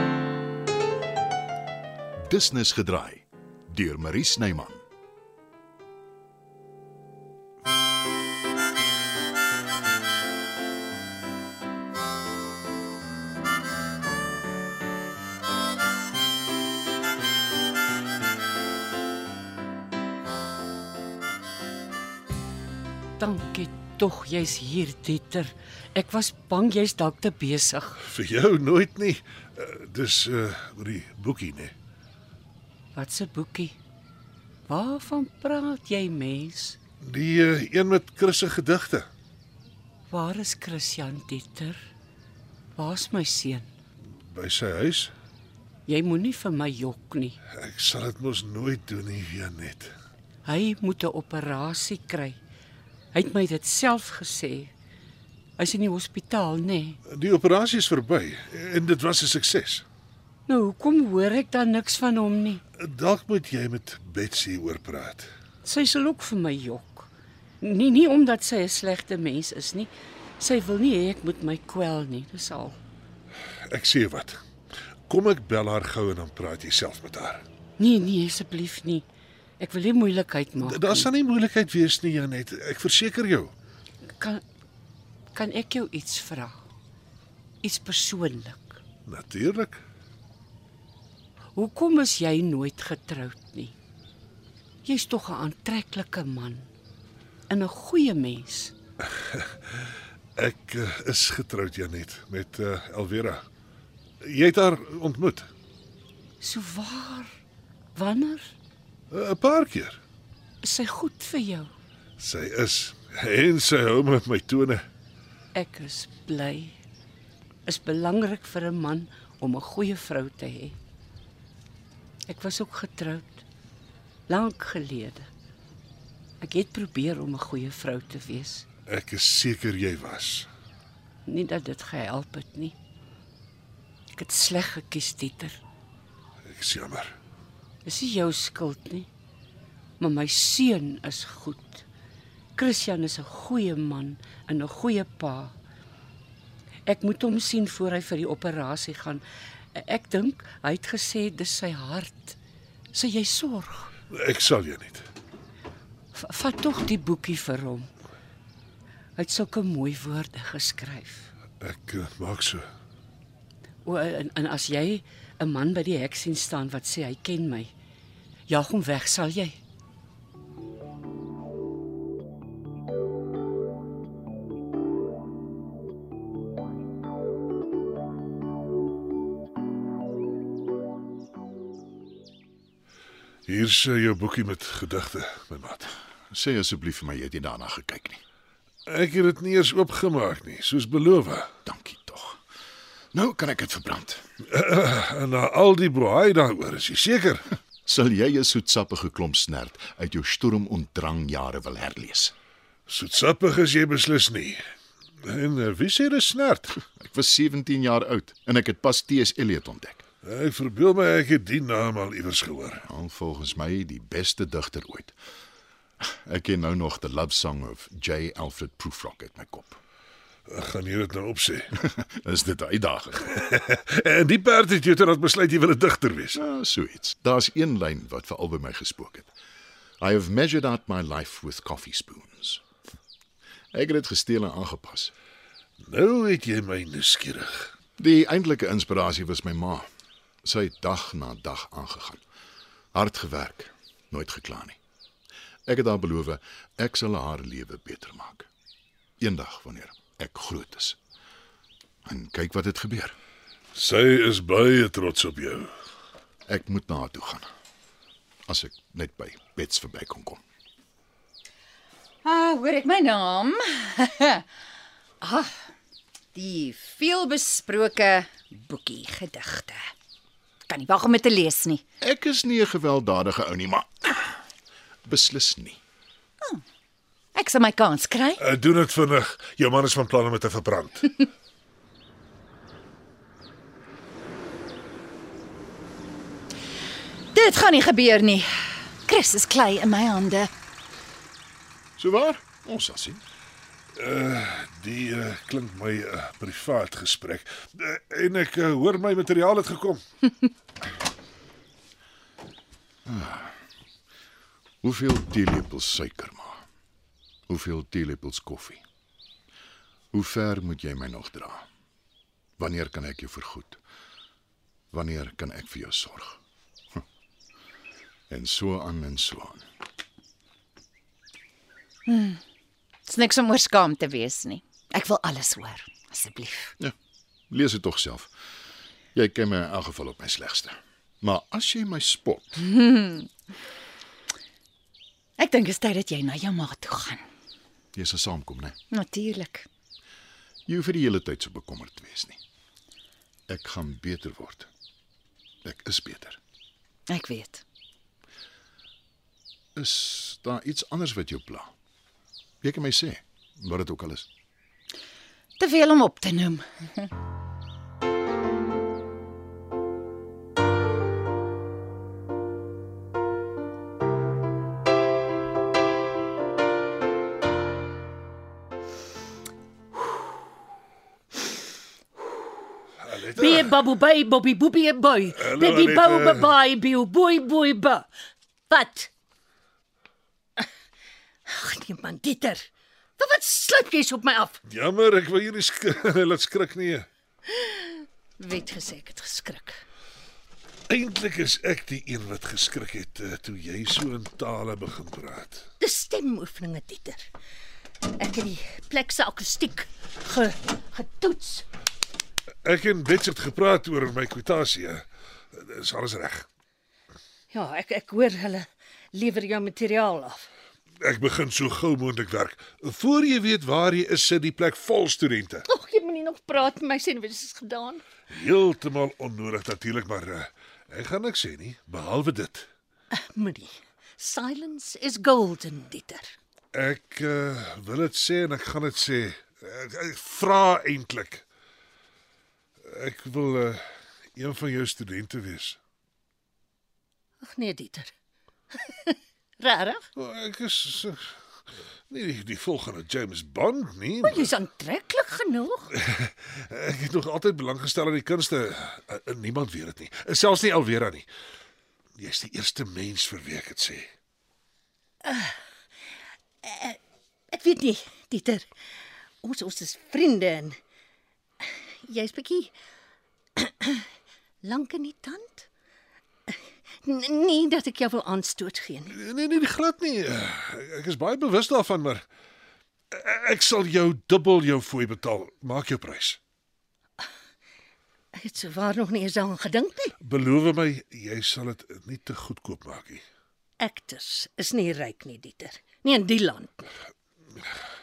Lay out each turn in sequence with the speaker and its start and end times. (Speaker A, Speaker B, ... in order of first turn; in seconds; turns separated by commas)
Speaker A: 2.2-4.8, Speaker B: 23.2-28.0, Speaker C: 28.0-31.7, Speaker B: 33.0-33.8, Speaker B: 34.7-36.8, Speaker C: 37.0-39.1, Speaker B: 40.1-41.8, Speaker B: 42.8-43.7, Speaker C: 44.2-45.1, Speaker B: 45.9-47.4, Speaker C: 47.5-49.9, Speaker B: 50.4-52.4, Speaker B: 53.1-54.7, Speaker B: 55.6-57.0, Speaker C: 57.1-59.8, Speaker B: 60.5-62.6, Speaker C: 62.8-65.3, Speaker B: 65.6-67.1, Speaker B: 67.6-72.8, Speaker C: 73.7-74.4, Speaker C: 75.1-77.4, Speaker B: 77.8-79.0, Speaker B: 79.6-81.1, Speaker C: 80.6-83.5, Speaker B: 85.3-86.6, Speaker B: 87.6-88.8, Speaker C: 89.1-89.8, Speaker B: 91.5-93.7, Speaker B: 94.8-96.7, Speaker B: 97.5-98.7, Speaker C: 99.1-99.8, Speaker C: 100.3-103.4, Speaker C: 104.2-105.5, Speaker B: 106.4-107.3, Speaker B: 108.0-108.5, Speaker C: 109.1-110.0, Speaker B: 110.6-111.7, Speaker C: 112.2-114.8, Speaker B: 115.5-116.8, Speaker B: 117.7-120.8, Speaker B: 122.3-123.4, Speaker B: 124.3-125.3, Speaker B: 126.4-128.6, Speaker C: 128.9-130.5, Speaker B: 131.2-132.7, Speaker B: 134.2-135.6, Speaker C: 136.4-137.1, Speaker B: 137.8-139.1, Speaker B: 140.0-141.8, Speaker B: 142.6-145.5, Speaker B: 146.8-152.3, Speaker B: 152.9-153.9, Speaker C: 154.1-155.1, Speaker B: 156.1-157.9, Speaker B: 159.2-161.3, Speaker C: 161.6-162.7, Speaker B: 163.8-167.7, Speaker B: 168.5-169.6, Speaker C: 183.5-185.9, Speaker A: 186.3-188.2, Speaker C: 188.9-191.5, Speaker A: 191.7-192.4, Speaker A: 193.1-194.2, Speaker C: 194.5-197.4, Speaker A: 197.8-202.3, Speaker C: 202.9-204.6, Speaker C: 205.2-206.7, Speaker A: 206.9-210.0, Speaker C: 210.2-212.8, Speaker A: 212.9-215.1, Speaker A: 216.0-219.8, Speaker C: 220.5-221.7, Speaker A: 221.8-223.3, Speaker C: 223.3-226.4, Speaker A: 226.3-229.3, Speaker A: 230.0-232.6, Speaker A: 233.7-235.1, Speaker C: 235.8-237.7, Speaker A: 238.0-239.9, Speaker A: 240.4-242.2, Speaker A: 242.9-244.8, Speaker A: 245.7-248.5, Speaker A: 249.2-251.0, Speaker A: 252.1-253.1, Speaker C: 253.7-255.7, Speaker A: 256.5-257.5, Speaker A: 258.5-260.4, Speaker D: 262.2-264.4, Speaker D: 265.2-265.7, Speaker D: 266.3-269.8, Speaker D: 270.7-271.8, Speaker A: 272.0-274.4, Speaker A: 275.0-275.8, Speaker D: 277.3-278.4, Speaker C: 278.4-281.2, Speaker D: 287.3-288.5, Speaker D: 289.0-290.5, Speaker A: 292.0-293.2, Speaker C: 293.9-300.0, Speaker A: 303.1-303.5, Speaker A: 304.8-306.6, Speaker A: 307.5-308.8, Speaker A: 310.1-311.7, Speaker A: 312.6-313.8, Speaker A: 314.9-316.4, Speaker A: 318.3-319.6, Speaker D: 322.1-322.4, Speaker D: 323.1-326.7, Speaker A: 327.5-328.3, Speaker A: 329.1-332.6, Speaker D: 332.6-333.3, Speaker D: 335.4-337.2, Speaker A: 337.9-338.8, Speaker D: 338.9-339.7, Speaker A: 340.7-342.4, Speaker A: 343.5-344.7, Speaker A: 345.6-346.4, Speaker D: 347.1-347.6, Speaker A: 349.8-351.7, Speaker A: 352.6-354.3, Speaker D: 355.6-357.1, Speaker C: 373.0-373.8, Speaker E: 373.3-378.1, Speaker C: 375.3-376.5, Speaker E: 378.7-379.1, Speaker E: 381.4-382.6, Speaker E: 383.2-384.6, Speaker C: 384.7-387.1, Speaker E: 387.5-389.8, Speaker C: 390.9-395.6, Speaker E: 395.8-397.2, Speaker E: 398.1-401.6, Speaker C: 402.6-406.4, Speaker E: 407.5-410.4, Speaker C: 411.0-415.6, Speaker E: 415.7-418.0, Speaker C: 418.3-422.7, Speaker E: 423.2-426.3, Speaker C: 426.7-431.4, Speaker C: 432.8-433.8, Speaker C: 434.3-435.8, Speaker E: 437.4-438.1, Speaker E: 438.7-440.0, Speaker C: 440.1-441.3, Speaker C: 442.1-444.5, Speaker E: 444.2-445.9, Speaker C: 445.9-451.3, Speaker C: 452.2-454.1, Speaker E: 455.2-455.6, Speaker E: 456.6-457.0, Speaker E: 457.5-458.7, Speaker E: 459.4-460.8, Speaker E: 462.0-462.7, Speaker E: 463.6-464.1, Speaker E: 464.6-465.7, Speaker E: 466.5-469.1, Speaker C: 469.1-472.2, Speaker C: 473.1-476.4, Speaker E: 478.4-480.1, Speaker C: 480.2-483.2, Speaker E: 483.8-486.9